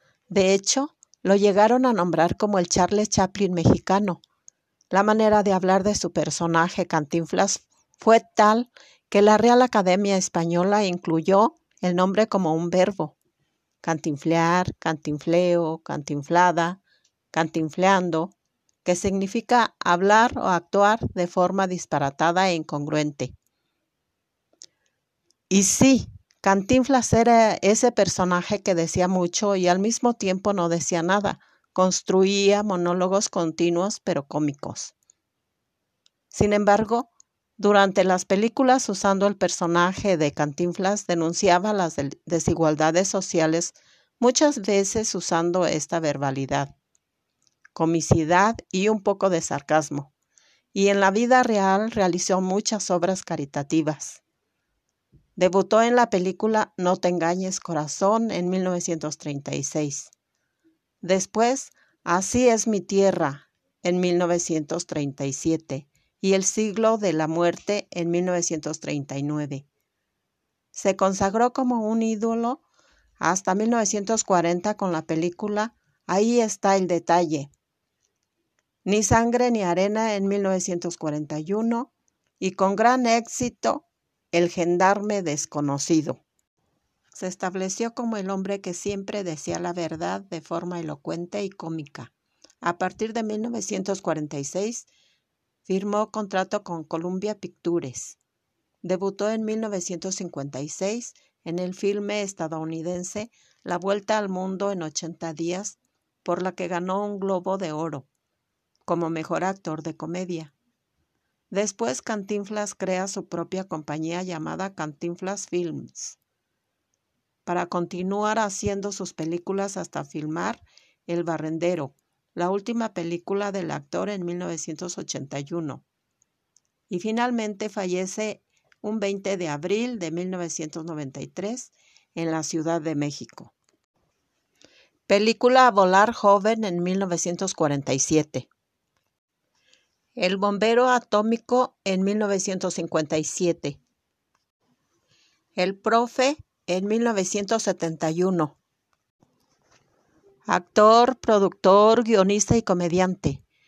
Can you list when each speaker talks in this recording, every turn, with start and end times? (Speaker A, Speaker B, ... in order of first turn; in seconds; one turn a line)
Speaker A: 0.3-4.2
Speaker A: 4.9-13.2
Speaker A: 13.8-16.8
Speaker A: 17.3-18.3
Speaker A: 18.8-23.3
Speaker A: 25.5-34.9
Speaker A: 36.3-46.7
Speaker A: 47.7-50.1
Speaker A: 50.7-54.2
Speaker A: 55.4-60.1
Speaker A: 61.0-69.7
Speaker A: 70.7-72.6
Speaker A: 73.2-77.5
Speaker A: 78.8-86.2
Speaker A: 87.1-94.9
Speaker A: 95.7-98.2
Speaker A: 98.8-108.1
Speaker A: 108.8-110.5
Speaker A: 111.5-116.2
Speaker A: 117.5-125.8
Speaker A: 126.9-133.5
Speaker A: 135.1-138.5
Speaker A: 140.2-143.8
Speaker A: 145.6-148.6
Speaker A: 150.5-153.4